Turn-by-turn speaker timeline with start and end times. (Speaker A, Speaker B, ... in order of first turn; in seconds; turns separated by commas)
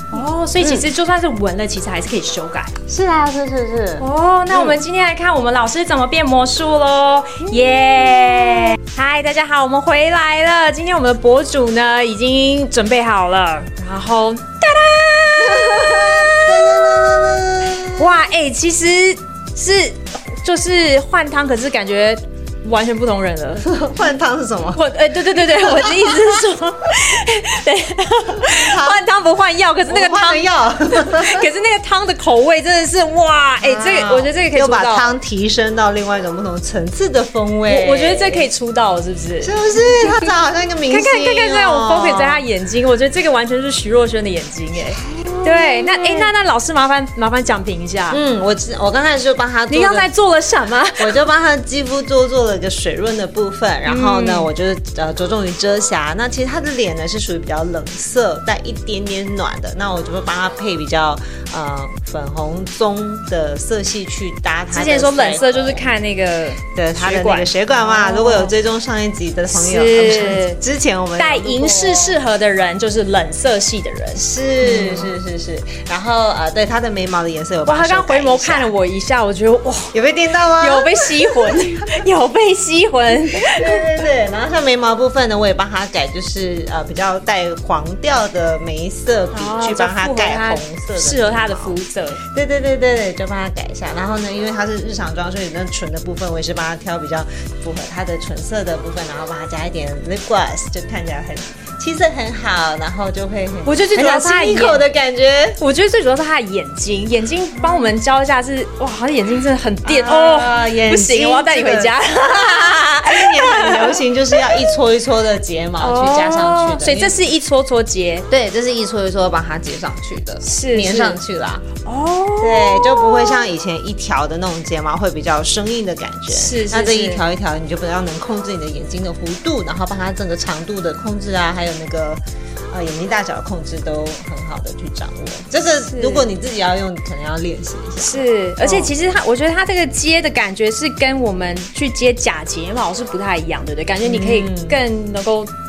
Speaker A: 0.1-2.8, Speaker B: 0.6-0.8, Speaker B: 2.9-4.8, Speaker A: 4.0-16.8, Speaker B: 15.4-18.2, Speaker A: 18.0-23.6, Speaker B: 23.6-24.8, Speaker A: 24.7-35.1, Speaker B: 25.4-26.3, Speaker B: 28.4-29.0, Speaker B: 29.8-31.5, Speaker B: 33.6-38.5, Speaker A: 37.7-40.1, Speaker B: 39.4-42.4, Speaker A: 40.9-48.2, Speaker B: 45.1-46.3, Speaker B: 48.1-50.1, Speaker A: 49.7-51.2, Speaker B: 51.0-65.9, Speaker A: 53.8-54.5, Speaker A: 64.7-68.5, Speaker B: 66.7-72.2, Speaker A: 69.5-70.6, Speaker A: 71.2-75.1, Speaker B: 74.1-78.7, Speaker A: 77.6-80.0, Speaker B: 79.9-81.7, Speaker A: 80.6-83.8, Speaker B: 83.4-105.6, Speaker A: 89.3-92.2, Speaker A: 103.6-104.8, Speaker A: 105.6-114.6, Speaker B: 107.6-107.9, Speaker B: 109.8-117.1, Speaker A: 115.8-118.2, Speaker B: 118.3-121.7, Speaker A: 120.4-121.2, Speaker A: 121.8-123.4, Speaker B: 122.4-132.2, Speaker A: 126.3-127.2, Speaker B: 132.7-138.9, Speaker A: 135.9-136.3, Speaker A: 138.0-145.5, Speaker B: 144.0-144.8